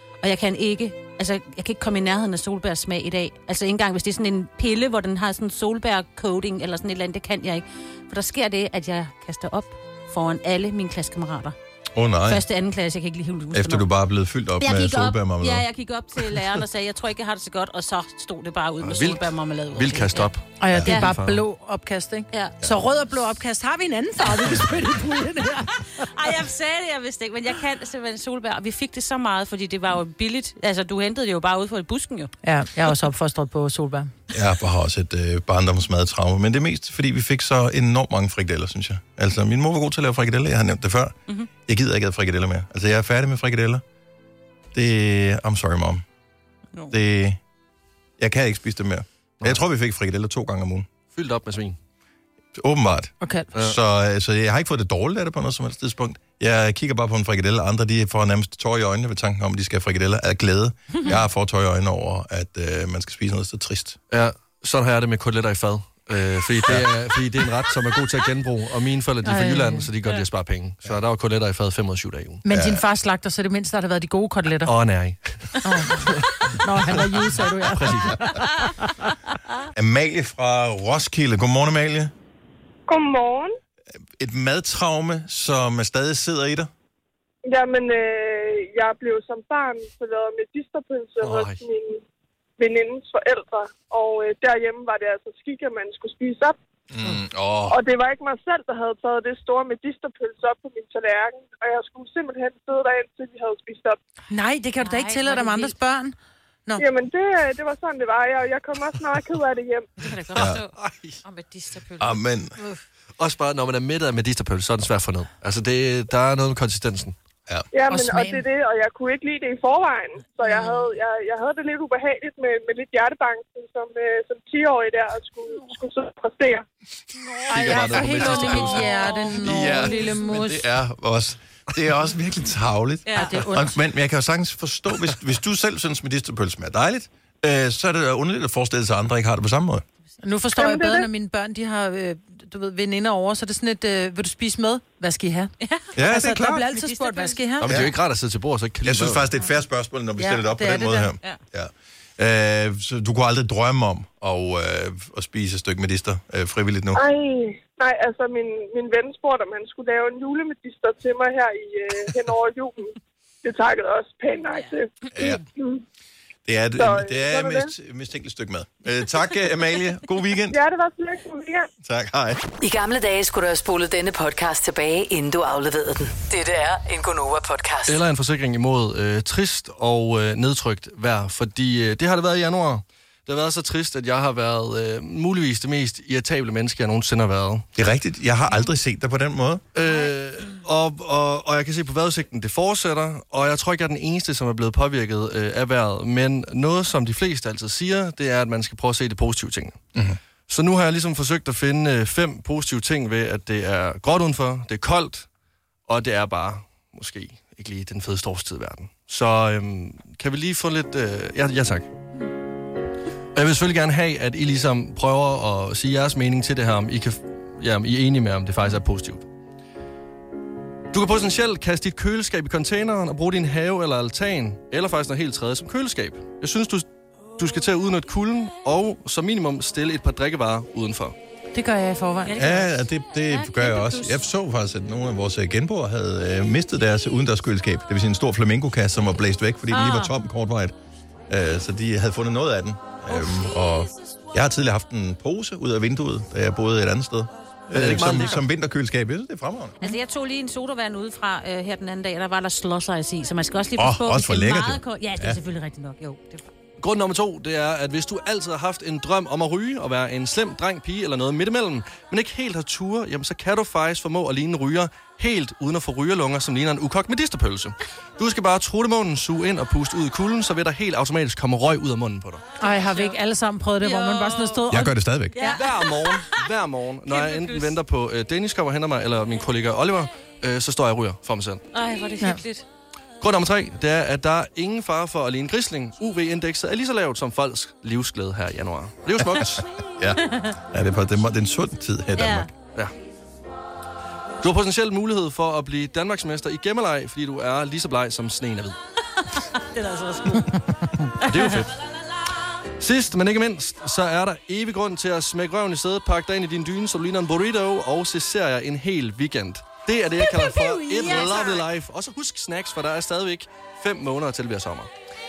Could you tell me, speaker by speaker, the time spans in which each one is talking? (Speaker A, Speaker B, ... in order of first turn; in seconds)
Speaker A: 0.2-11.6, 12.3-13.9, 14.6-20.3, 26.0-32.3, 104.8-105.7, 110.0-112.2, 127.3-130.3, 133.1-133.4, 145.6-145.9, 146.7-147.4, 232.3-234.2, 239.7-240.1, 249.8-256.5, 272.9-273.2, 273.8-274.7, 275.4-276.4, 277.1-277.8, 281.7-282.6, 290.3-290.6, 292.1-292.5, 299.5-300.7, 301.2-301.7, 311.0-311.6
Speaker B: 11.9-12.4, 13.5-15.7, 34.3-43.8, 44.7-46.0, 46.9-47.4, 48.2-50.9, 52.5-64.0, 66.7-66.9, 72.5-72.8, 79.7-82.1, 84.2-86.7, 96.9-97.8, 110.3-110.6, 112.0-112.6, 129.4-139.8, 145.9-146.7, 147.7-148.0, 148.8-157.0, 165.1-165.4, 166.5-170.6, 171.8-172.4, 187.8-189.6, 232.4-240.8, 241.3-249.8, 253.8-255.4, 274.7-275.4, 289.4-292.5
Speaker C: 18.8-21.4, 51.1-51.8, 64.1-72.4, 74.7-78.3, 91.2-91.6, 110.4-111.2, 113.2-117.2, 127.5-129.0, 147.6-149.2, 177.9-187.7, 189.7-199.8, 200.5-205.3, 205.9-211.9, 213.3-219.3, 220.9-231.2, 247.7-248.4, 256.8-272.4, 275.5-281.6, 283.2-289.7, 294.4-298.8, 301.3-301.8, 302.8-314.9
Speaker D: 20.6-26.1, 32.4-34.1, 53.2-53.5, 69.2-69.9, 72.4-74.7, 75.6-79.2, 104.3-106.2, 117.9-118.4, 127.5-130.7, 133.1-133.8, 140.2-147.8, 150.2-151.1, 231.5-232.4, 272.6-275.5, 310.4-311.3
Speaker E: 82.9-83.6, 87.5-92.0, 92.6-96.6, 97.7-104.0, 106.8-109.9, 117.7-126.7, 140.6-141.1, 156.9-165.8, 166.8-167.7, 170.5-171.7
Speaker F: 172.6-178.0